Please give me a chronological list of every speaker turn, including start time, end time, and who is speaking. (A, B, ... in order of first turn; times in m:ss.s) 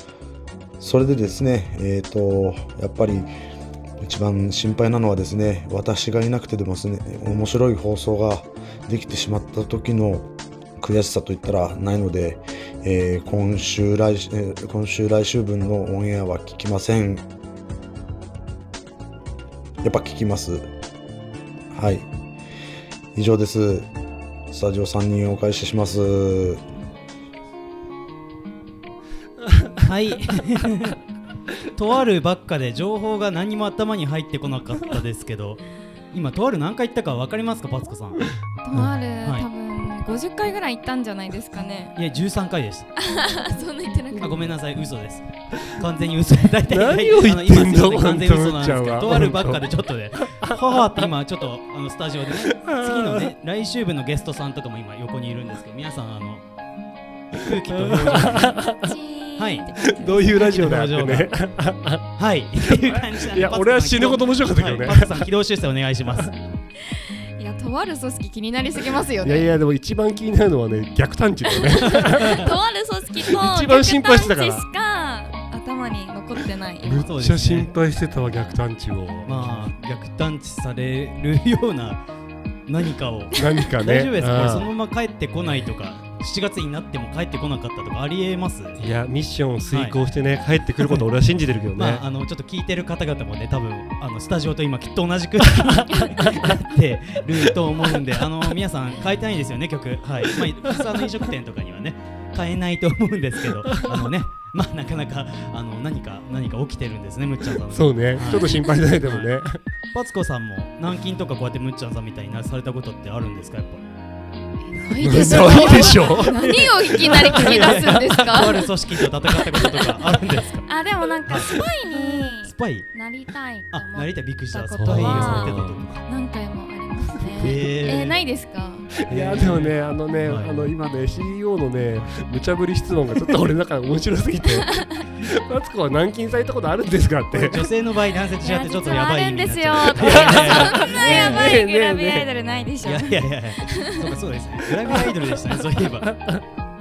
0:00.8-0:03.3 A
0:04.0-0:10.3 A
0:10.8-0:17.2 A
0:19.8-0:20.7 A
0:21.7-0:22.1 A
0:23.2-0:23.9 A
0:24.5-0:26.6 A
0:29.4-0:29.9 B
0:29.8-0:31.0 C
0:31.8-0:38.3 C
0:38.6-0:41.9 D
0:39.2-0:39.5 C
0:42.0-0:42.9 C
0:43.0-0:44.4 D
0:44.2-0:56.4 C
0:45.6-0:45.8 B
0:46.7-0:49.6 B
0:50.2-0:50.6 B
0:52.4-0:53.3 B
0:57.3-0:58.6 C
0:57.4-0:58.9 B
0:58.6-1:00.8 D
0:59.4-0:59.7 C
0:59.8-1:02.1 B
1:00.3-1:01.3 C
1:02.2-1:06.3 C
1:02.6-1:05.3 B
1:06.9-1:09.5 D
1:09.2-1:12.5 B
1:11.4-1:17.1 D
1:11.9-1:12.4 C
1:13.2-1:14.7 B
1:16.8-1:19.7 B
1:17.0-1:17.7 C
1:19.3-1:22.0 C
1:22.7-1:28.8 C
1:23.3-1:24.7 B
1:28.8-1:32.0 B
1:29.7-1:30.0 C
1:31.8-1:49.3 C
1:35.5-1:36.6 B
1:37.5-1:38.0 B
1:43.7-1:44.0 B
1:47.7-1:49.6 B
1:48.2-1:48.6 D
1:49.9-1:53.8 C
1:54.7-1:58.7 D
1:55.0-1:58.5 B
1:55.1-2:00.7 C
1:59.3-1:59.9 D
2:00.7-2:08.9 D
2:01.3-2:02.9 C
2:03.7-2:05.9 C
2:04.8-2:06.0 B
2:07.2-2:07.6 B
2:07.4-2:08.2 C
2:08.9-2:17.7 B
2:09.1-2:10.5 C
2:14.6-2:15.0 D
2:17.3-2:21.6 C
2:18.4-2:24.1 D
2:20.0-2:22.3 B
2:22.8-2:26.1 C
2:24.9-2:26.4 B